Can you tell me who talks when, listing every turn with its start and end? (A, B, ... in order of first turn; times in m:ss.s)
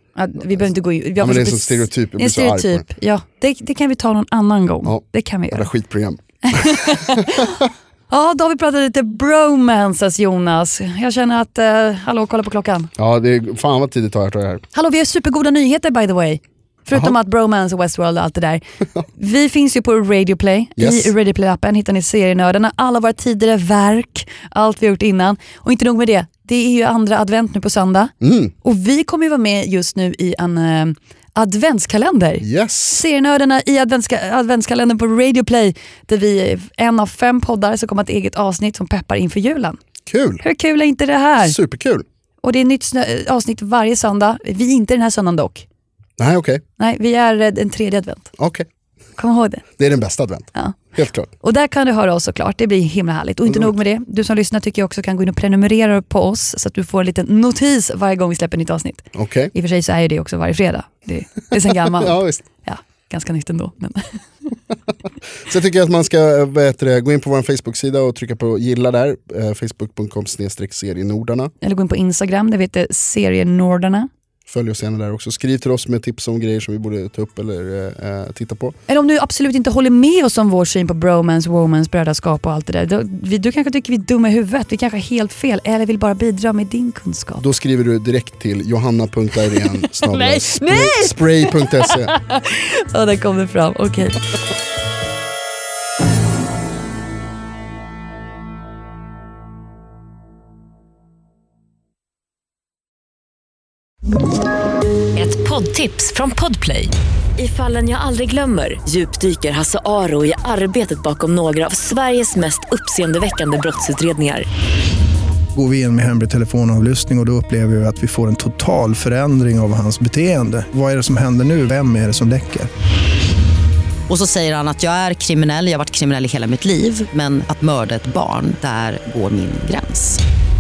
0:00.2-0:05.7 A
0:00.4-0:02.9 B
0:04.8-0:07.7 B
0:06.4-0:12.9 A
0:13.0-0:14.6 B
0:14.7-0:39.8 A
0:20.8-0:21.1 B
0:28.2-0:28.5 B
0:32.4-0:33.0 B
0:40.1-0:40.4 B
0:40.4-0:41.6 A
0:41.4-0:42.0 B
0:42.4-0:45.6 A
0:46.2-0:46.6 B
0:46.8-0:48.3 A
0:48.4-0:48.7 B
0:49.2-0:49.6 A
0:49.8-0:51.3 B
0:51.4-1:04.2 A
0:53.5-0:53.8 B
0:59.2-0:59.5 B
1:01.8-1:02.4 B
1:05.5-1:11.5 B
1:11.6-1:14.1 A
1:14.5-1:18.8 B
1:18.9-1:27.4 A
1:27.4-1:32.1 B
1:30.1-1:34.2 A
1:45.2-1:54.4 C
1:55.6-2:02.7 D
2:04.1-2:10.2 E